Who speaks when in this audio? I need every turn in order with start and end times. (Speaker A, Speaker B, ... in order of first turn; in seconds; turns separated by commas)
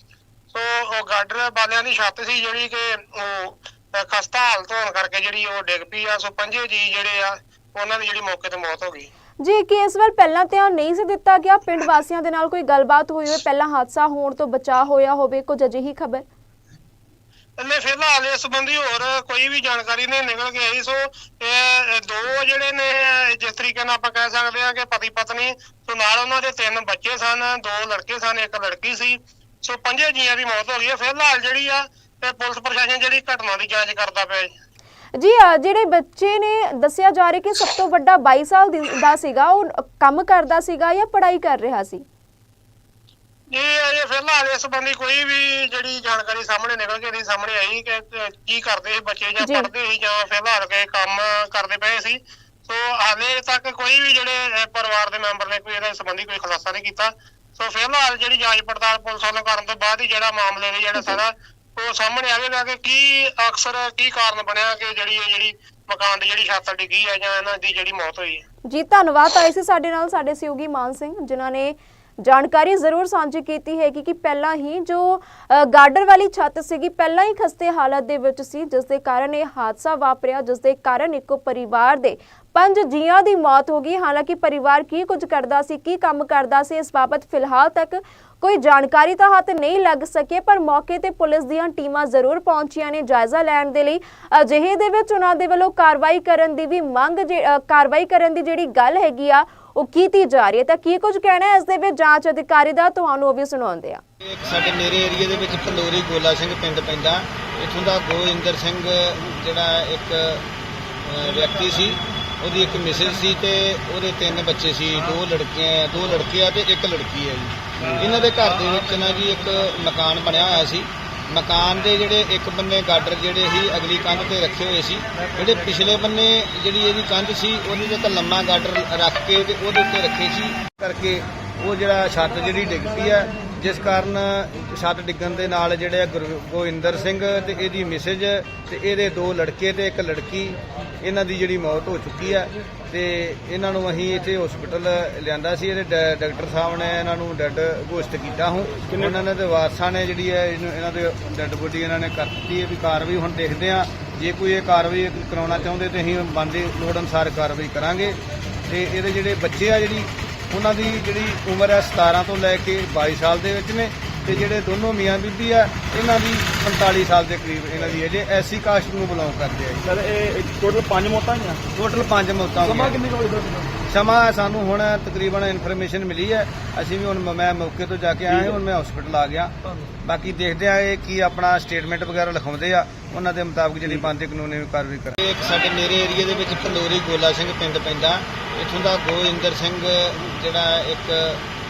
Speaker A: 0.5-9.1, Speaker B: 9.4-16.2, Speaker A: 17.6-34.5, Speaker B: 35.2-42.0, Speaker A: 43.5-68.5, Speaker B: 49.4-49.7, Speaker B: 68.7-104.0, Speaker C: 104.2-110.5, Speaker C: 111.0-169.9, Speaker D: 148.9-149.1, Speaker D: 169.8-171.7, Speaker C: 171.7-173.0, Speaker D: 172.6-173.7, Speaker C: 173.9-191.4, Speaker D: 178.3-178.6